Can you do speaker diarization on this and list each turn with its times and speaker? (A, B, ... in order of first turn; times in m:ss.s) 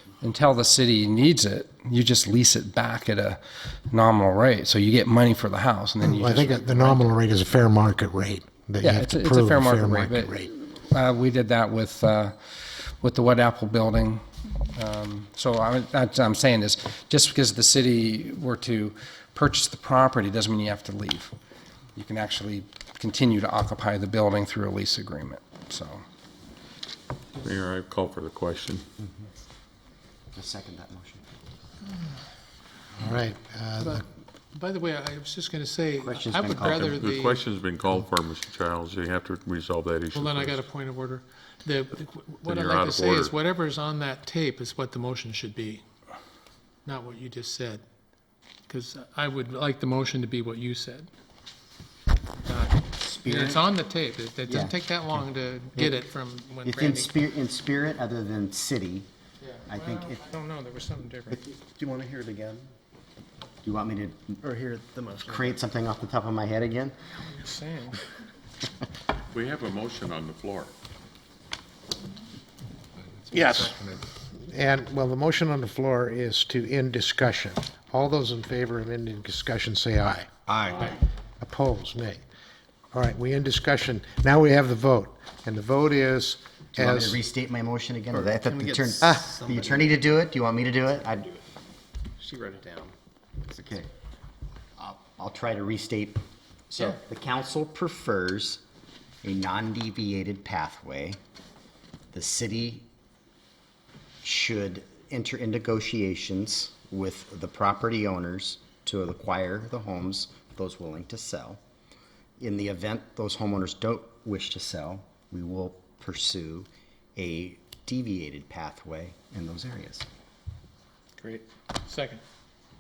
0:00.2-0:07.1 A
0:06.0-0:10.5 B
0:08.8-0:14.2 A
0:14.7-0:21.3 A
0:22.0-0:26.0 A
0:27.4-0:28.8 C
0:30.3-0:31.2 D
0:33.0-0:34.0 B
0:33.8-0:37.4 E
0:36.0-0:36.9 D
0:36.6-0:40.6 C
0:40.1-0:45.8 E
0:42.4-0:43.3 C
0:46.8-0:47.8 E
0:48.7-0:51.1 E
0:52.4-0:57.1 E
0:53.0-0:53.7 D
0:54.5-0:54.7 D
0:56.6-0:59.1 D
0:59.6-1:01.4 E
0:59.7-1:00.3 D
1:01.6-1:02.6 F
1:03.6-1:04.4 D
1:04.4-1:05.6 F
1:05.2-1:07.0 D
1:07.3-1:08.0 E
1:09.3-1:10.7 C
1:13.3-1:13.8 B
1:14.5-1:20.3 B
1:20.5-1:20.9 D
1:21.4-1:22.2 B
1:22.9-1:27.2 B
1:26.8-1:31.4 D
1:28.1-1:29.9 F
1:32.2-1:32.9 F
1:33.5-1:33.9 D
1:34.8-1:38.6 D
1:39.2-1:41.2 D
1:42.1-1:42.8 D
1:44.2-1:51.6 D
1:52.4-2:00.1 D
2:01.9-2:02.2 E